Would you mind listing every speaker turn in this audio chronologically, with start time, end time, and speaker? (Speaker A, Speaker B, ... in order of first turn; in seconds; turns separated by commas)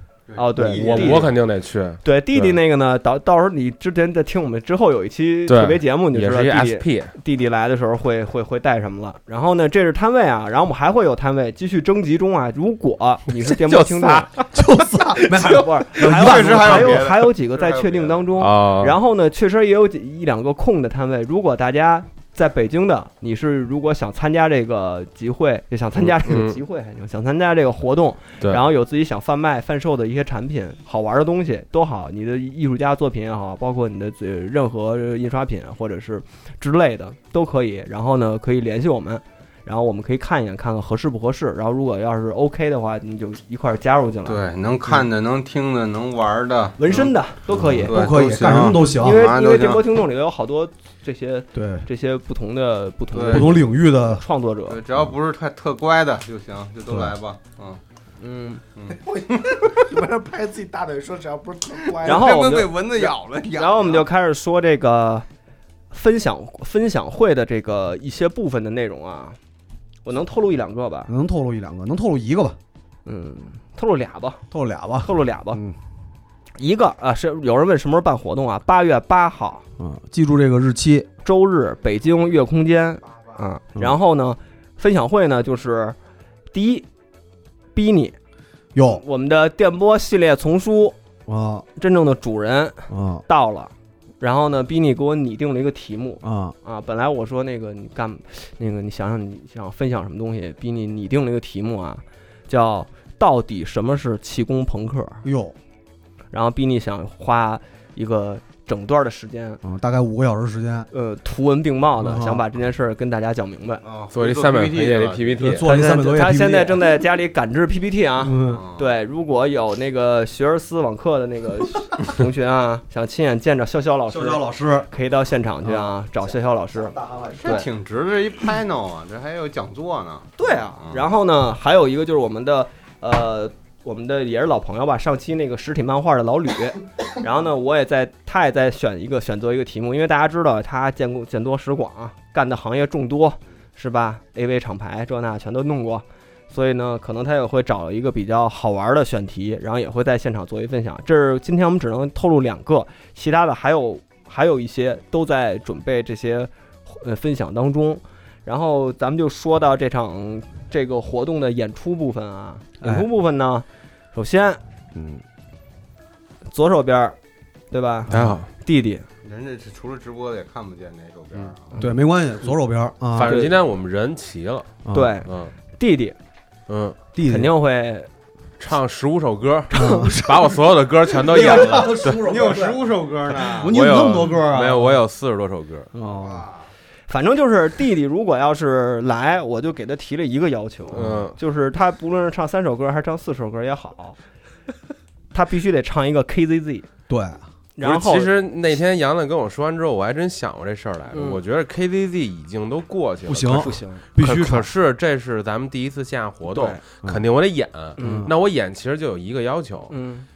Speaker A: 0.3-1.3, Speaker B: 0.3-1.3, Speaker C: 0.6-2.6, Speaker B: 2.0-14.3, Speaker C: 5.5-7.1, Speaker C: 13.7-14.4, Speaker D: 14.5-17.1, Speaker B: 15.3-44.4, Speaker A: 16.0-18.3, Speaker C: 18.4-19.0, Speaker C: 25.9-26.6, Speaker A: 44.2-47.1, Speaker B: 46.8-48.2, Speaker D: 47.5-49.3, Speaker A: 47.8-49.9, Speaker B: 48.8-54.8, Speaker D: 51.5-51.8, Speaker A: 53.1-53.6, Speaker D: 53.3-54.2, Speaker A: 54.7-57.8, Speaker D: 56.9-57.1, Speaker B: 58.2-58.6, Speaker A: 58.8-59.9, Speaker E: 59.0-62.6, Speaker A: 61.9-64.0, Speaker B: 62.0-65.2, Speaker B: 65.9-69.4, Speaker B: 70.0-71.1, Speaker D: 71.1-72.6, Speaker B: 73.0-74.4, Speaker D: 74.5-75.8, Speaker B: 75.0-75.6, Speaker B: 76.6-79.6, Speaker D: 79.8-81.1, Speaker B: 81.2-86.0, Speaker B: 86.5-86.9, Speaker B: 87.7-88.2, Speaker D: 88.7-89.0, Speaker B: 88.8-91.0, Speaker D: 91.3-91.7, Speaker B: 91.8-105.2, Speaker D: 92.9-93.2, Speaker D: 96.2-96.5, Speaker D: 105.2-105.5, Speaker B: 106.3-109.6, Speaker D: 109.6-110.9, Speaker B: 110.9-113.8, Speaker D: 112.0-112.5, Speaker A: 113.8-115.5, Speaker C: 114.1-115.7, Speaker D: 115.4-116.8, Speaker B: 115.6-127.7, Speaker D: 118.2-118.6, Speaker A: 118.5-118.9, Speaker D: 124.1-124.9, Speaker D: 125.6-126.0, Speaker D: 126.8-127.7, Speaker A: 127.3-131.1, Speaker B: 130.4-164.6, Speaker D: 162.8-163.1, Speaker D: 164.9-165.2, Speaker B: 166.5-167.2, Speaker B: 167.7-169.1, Speaker D: 168.1-168.4, Speaker C: 168.1-168.5, Speaker A: 169.2-171.7, Speaker D: 171.8-173.4, Speaker C: 173.1-174.7, Speaker B: 173.2-173.5, Speaker D: 174.8-175.2, Speaker B: 174.9-176.2, Speaker C: 175.2-175.5, Speaker C: 176.7-177.0, Speaker D: 177.1-177.5, Speaker B: 177.2-178.1, Speaker C: 178.6-182.2, Speaker D: 179.7-180.6, Speaker D: 181.1-185.0, Speaker A: 181.6-183.7, Speaker C: 183.6-185.9, Speaker D: 185.9-186.5, Speaker A: 186.2-186.5, Speaker B: 187.1-194.2, Speaker C: 190.9-191.3, Speaker B: 195.3-196.9, Speaker D: 197.1-197.4, Speaker B: 197.8-198.3, Speaker C: 197.8-209.9, Speaker B: 201.1-201.4, Speaker D: 203.2-204.7, Speaker B: 203.5-204.0, Speaker B: 206.5-206.8, Speaker B: 208.0-208.3, Speaker D: 208.0-208.3, Speaker B: 209.9-210.2